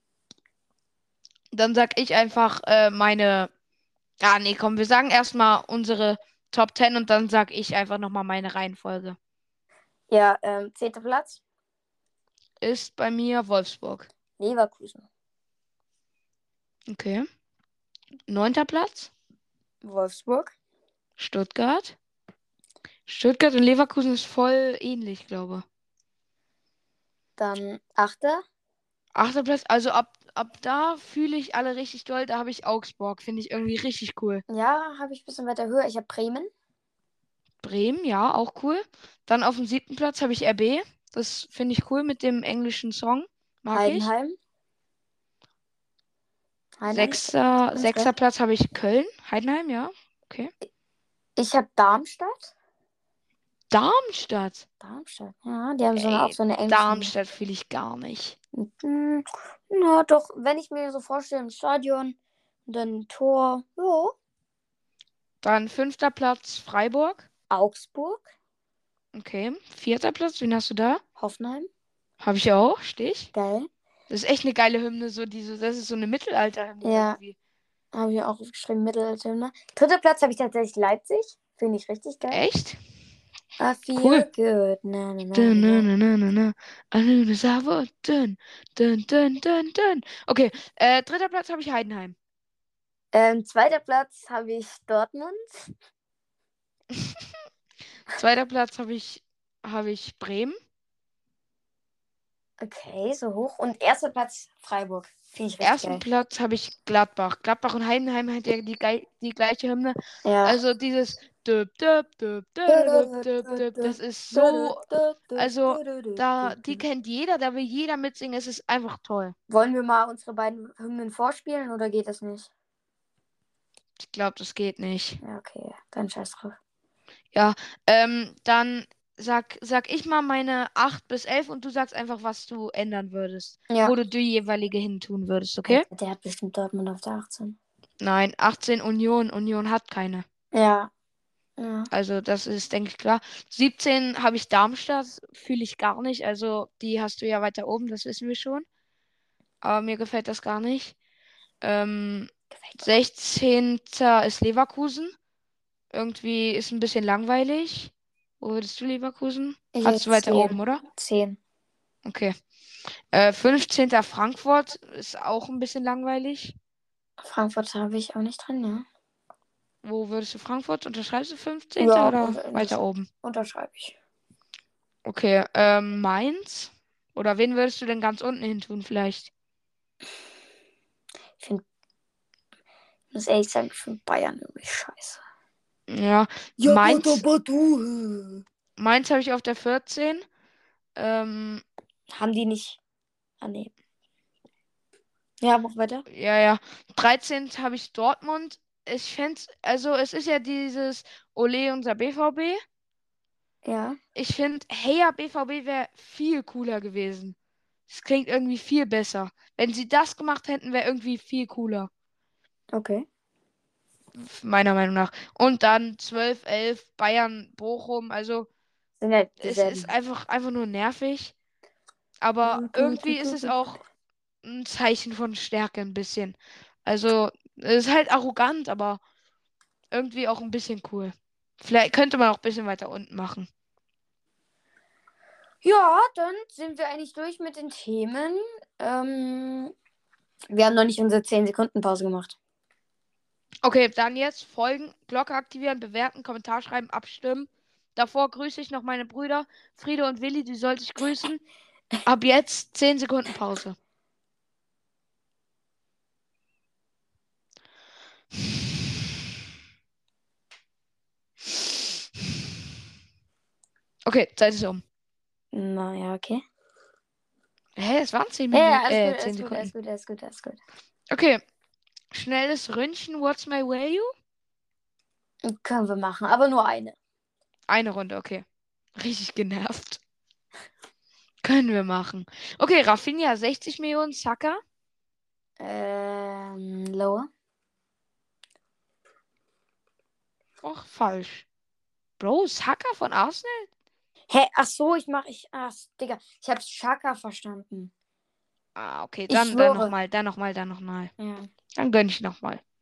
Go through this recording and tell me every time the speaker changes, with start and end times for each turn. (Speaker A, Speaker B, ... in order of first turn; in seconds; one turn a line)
Speaker A: 1.5-3.5
Speaker A: 4.2-9.2
Speaker B: 10.1-11.4
Speaker A: 12.6-14.1
Speaker B: 14.4-15.1
Speaker A: 16.9-17.2
Speaker A: 18.3-19.1
Speaker B: 19.8-20.5
Speaker A: 21.2-21.9
Speaker A: 23.1-25.6
Speaker B: 27.4-28.4
Speaker A: 29.1-34.4
Speaker B: 34.5-36.5
Speaker A: 37.6-44.1
Speaker B: 43.7-44.4
Speaker B: 46.8-48.1
Speaker A: 46.9-50.5
Speaker B: 51.4-52.5
Speaker A: 53.7-54.7
Speaker B: 54.8-57.1
Speaker A: 56.0-58.4
Speaker B: 58.5-62.2
Speaker B: 62.7-64.2
Speaker A: 65.4-67.3
Speaker B: 67.5-68.3
Speaker A: 69.1-71.0
Speaker B: 71.2-71.7
Speaker A: 72.2-73.3
Speaker B: 73.3-73.7
Speaker A: 74.1-77.4
Speaker B: 76.8-77.2
Speaker B: 77.9-82.4
Speaker A: 82.3-82.8
Speaker B: 83.6-85.9
Speaker A: 84.0-84.3
Speaker A: 85.3-92.2
Speaker B: 93.1-95.7
Speaker A: 96.9-97.3
Speaker A: 98.1-100.6
Speaker B: 102.6-106.0
Speaker A: 105.6-114.8
Speaker B: 110.2-110.6
Speaker B: 112.7-116.8
Speaker A: 115.4-119.3
Speaker B: 119.5-122.5
Speaker A: 124.0-125.2
Speaker B: 125.2-126.6
Speaker A: 127.3-135.9
Speaker B: 133.7-133.9
Speaker B: 135.7-137.6
Speaker A: 138.0-140.2
Speaker B: 140.5-140.9
Speaker B: 141.6-141.9
Speaker A: 141.9-148.7
Speaker A: 149.6-150.9
Speaker A: 151.6-155.1
Speaker B: 152.5-152.9
Speaker A: 155.9-160.8
Speaker B: 159.7-161.4
Speaker A: 162.1-162.3
Speaker A: 163.1-166.6
Speaker B: 167.2-168.9
Speaker A: 169.8-173.1
Speaker B: 171.8-174.0
Speaker A: 175.1-179.3
Speaker B: 181.4-181.6
Speaker B: 183.1-185.2
Speaker A: 185.9-187.2
Speaker B: 186.6-188.4
Speaker A: 188.8-190.2
Speaker A: 191.0-191.6
Speaker B: 192.1-192.8
Speaker B: 193.4-193.7
Speaker B: 195.4-196.1
Speaker A: 196.1-202.6
Speaker B: 203.7-204.0
Speaker A: 204.2-207.3
Speaker A: 207.9-211.9
Speaker B: 212.7-213.1
Speaker A: 214.2-218.5
Speaker B: 219.0-219.9
Speaker A: 219.4-221.3
Speaker A: 222.2-223.8
Speaker B: 222.4-223.6
Speaker A: 224.4-229.0
Speaker A: 229.9-233.5
Speaker B: 235.6-239.7
Speaker B: 240.5-242.4
Speaker A: 243.6-251.4
Speaker A: 252.1-253.8
Speaker A: 264.1-264.8
Speaker B: 265.5-266.4
Speaker A: 267.8-269.7
Speaker B: 268.5-270.6
Speaker A: 271.1-271.4
Speaker A: 272.1-274.1
Speaker B: 275.4-277.0
Speaker A: 277.7-278.4
Speaker A: 279.0-280.0
Speaker A: 281.4-284.6
Speaker B: 285.6-287.3
Speaker A: 290.6-291.5
Speaker A: 292.2-293.7
Speaker B: 294.3-297.9
Speaker A: 298.8-301.1
Speaker B: 299.3-299.9
Speaker B: 301.2-301.5
Speaker A: 301.8-302.6